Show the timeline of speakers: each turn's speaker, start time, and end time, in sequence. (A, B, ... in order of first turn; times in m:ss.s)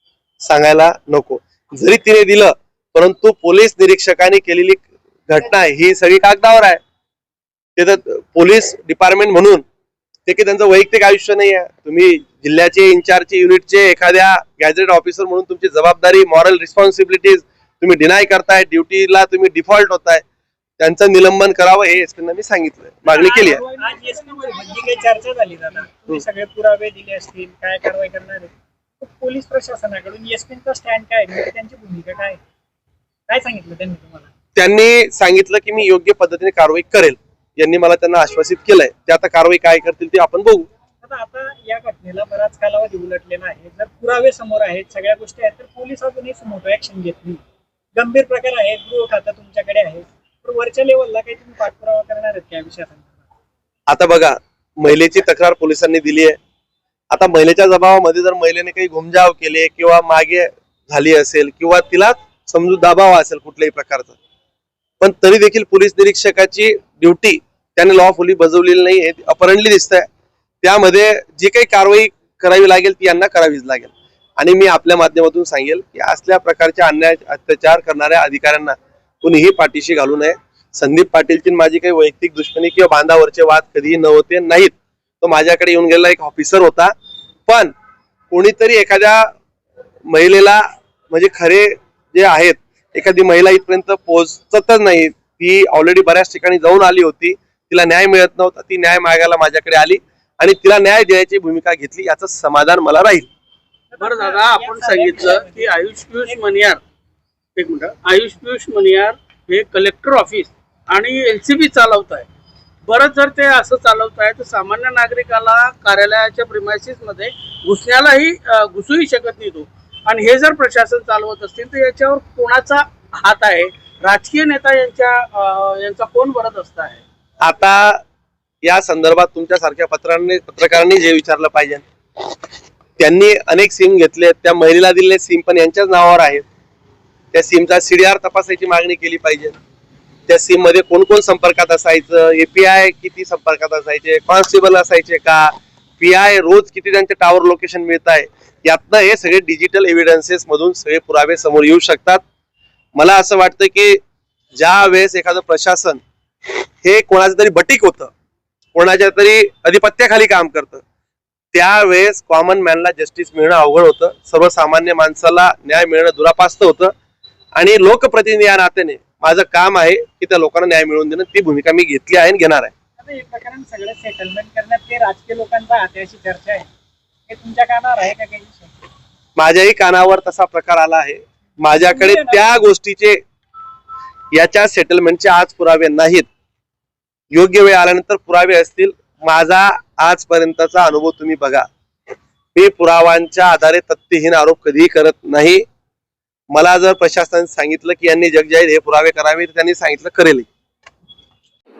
0:00.4-0:06.8 A
0:07.8-0:09.6 A
0:10.2-0:20.2 A
0:20.8-0:23.6 A
0:23.1-0:32.4 B
0:33.3-0:34.3 B
0:34.6-0:40.7 A
0:41.0-0:47.4 B
0:47.9-0:53.2 B
0:53.9-0:56.4 A
0:57.1-1:04.2 A
1:05.0-1:10.1 A
1:10.6-1:26.9 A
1:27.5-1:27.7 A
1:28.3-1:29.3 A
1:30.1-1:43.3 A
1:43.9-1:46.4 B
1:44.0-1:46.8 C
1:47.6-1:52.3 C
1:52.9-2:07.0 C
2:07.4-2:08.0 A
2:08.6-2:11.8 A
2:13.0-2:16.4 A
2:17.3-2:19.6 A
2:20.3-2:32.2 A
2:33.0-2:34.0 A
2:34.6-2:36.0 A
2:36.8-2:38.1 A
2:38.8-2:40.8 A
2:41.5-2:46.9 A
2:47.6-2:52.7 A
2:53.0-2:56.7 B
2:57.3-2:58.8 B
2:59.4-3:03.2 A
3:01.7-3:02.6 B
3:04.3-3:06.3 A
3:07.3-3:11.7 A
3:12.6-3:15.6 A
3:16.5-3:20.5 A